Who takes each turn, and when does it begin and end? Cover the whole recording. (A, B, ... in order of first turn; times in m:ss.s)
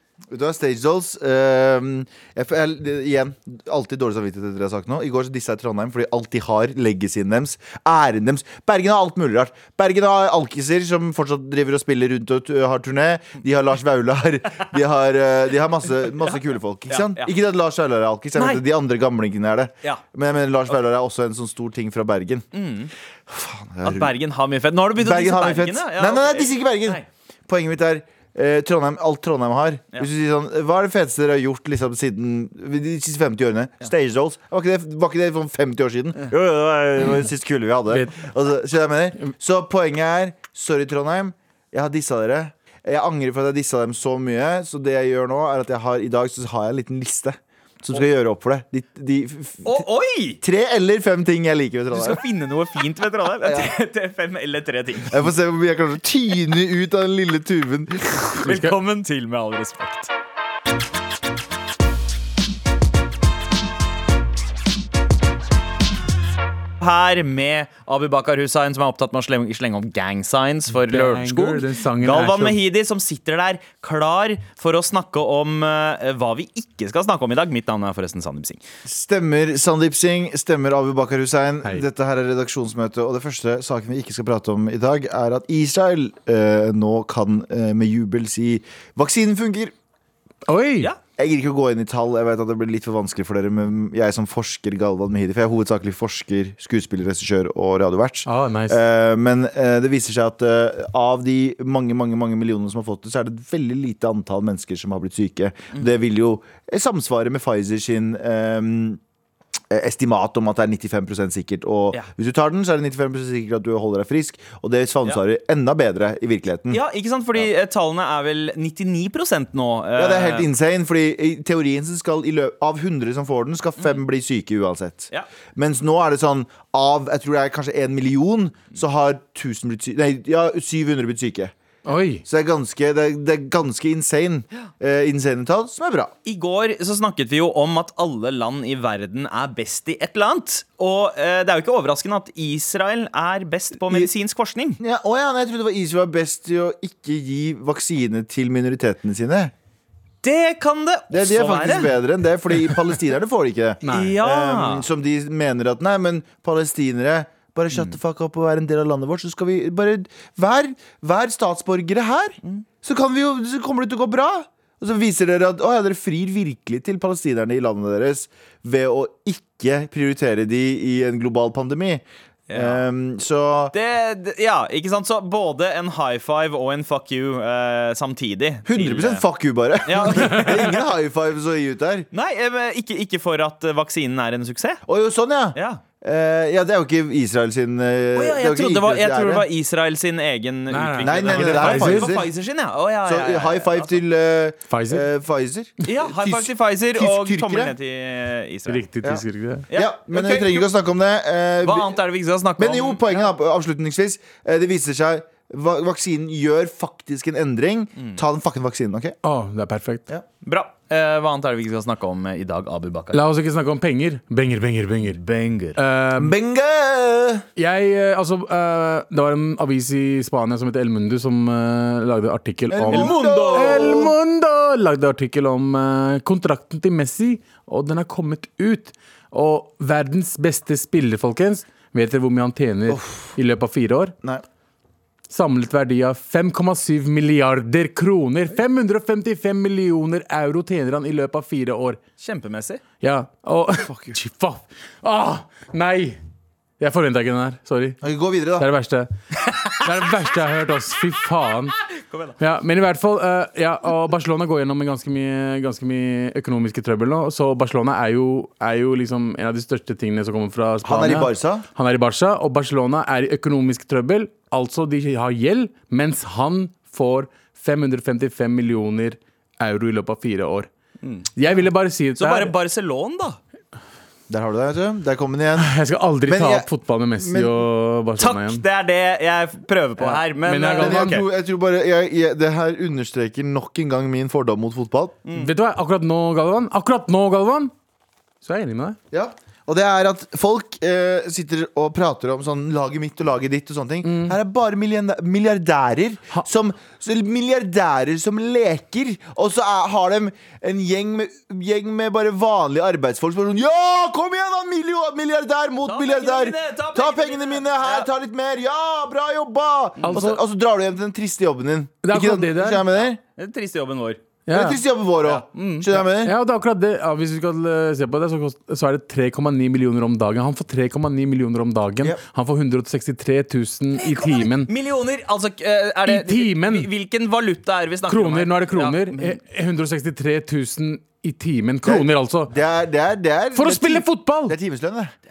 0:00.3-0:22.4 A
0:16.9-0:17.3 B
0:18.4-0:18.6 B
0:22.5-0:22.9 B
0:23.3-0:24.1 A
0:23.8-0:27.0 B
0:25.0-0:49.8 A
0:37.9-0:38.2 C
0:49.6-0:50.4 B
0:50.4-0:52.2 A
0:51.9-0:55.3 B
0:53.4-0:53.7 A
0:55.0-0:58.5 A
0:58.4-1:00.1 B
0:58.4-0:58.7 C
1:06.8-1:18.6 B
1:10.9-1:12.6 C
1:18.8-1:29.7 A
1:30.5-1:30.9 C
1:31.2-1:49.0 A
1:38.2-1:38.8 C
1:49.7-1:56.8 A
1:56.7-2:00.5 B
1:59.9-2:11.5 A
2:11.8-2:12.2 C
2:12.2-2:16.1 A
2:16.2-2:24.8 B
2:24.8-2:29.5 A
2:30.2-2:31.9 B
2:31.1-2:53.7 A
2:33.8-2:34.2 C
2:33.8-2:34.9 B
2:52.5-2:52.8 B
2:53.7-2:59.2 B
2:58.6-3:02.1 A
2:59.8-3:00.8 B
3:02.1-3:04.8 B
3:04.9-3:09.5 A
3:05.5-3:05.8 B
3:08.2-3:14.0 B
3:10.7-3:12.2 C
3:11.0-3:12.3 A
3:13.0-3:17.7 A
3:14.7-3:15.0 C
3:15.8-3:18.8 B
3:18.7-3:19.7 C
3:19.0-3:22.0 A
3:19.7-3:20.6 B
3:21.6-3:23.2 B
3:22.6-3:29.2 A
3:29.2-3:30.0 C
3:30.4-3:33.2 B
3:33.1-3:35.2 C
3:35.0-3:35.8 B
3:35.8-3:36.4 C
3:36.2-3:37.4 A
3:37.6-3:54.1 C
3:42.7-3:44.1 A
3:42.9-3:44.1 B
3:52.9-3:53.4 A
3:55.3-4:02.0 C
4:02.2-4:02.8 B
4:03.0-4:06.2 C
4:03.8-4:04.2 A
4:06.8-4:08.0 C
4:08.0-4:08.7 A
4:08.6-4:09.1 C
4:09.6-4:11.8 C
4:12.0-4:12.3 B
4:12.4-4:30.7 C
4:20.8-4:21.6 A
4:31.0-4:31.3 B
4:31.4-4:32.5 C
4:32.2-4:33.4 B
4:34.3-4:36.7 A
4:35.6-4:38.6 C
4:37.2-4:37.5 A
4:38.2-4:41.2 B
4:40.0-4:41.2 C
4:40.8-4:45.2 A
4:45.2-4:45.5 B
4:45.3-4:47.7 C
4:48.4-4:49.0 C
4:49.1-5:13.2 A
4:54.0-4:54.4 C
5:05.9-5:08.1 B
5:10.0-5:10.3 B
5:10.1-5:10.4 C
5:12.0-5:12.9 C
5:13.4-5:14.2 B
5:14.4-5:14.8 C
5:14.5-5:16.3 A
5:15.2-5:15.9 B
5:16.2-5:24.7 C
5:24.0-5:29.4 B
5:26.0-5:26.9 C
5:28.1-5:32.5 C
5:31.8-5:35.1 A
5:33.5-5:34.6 C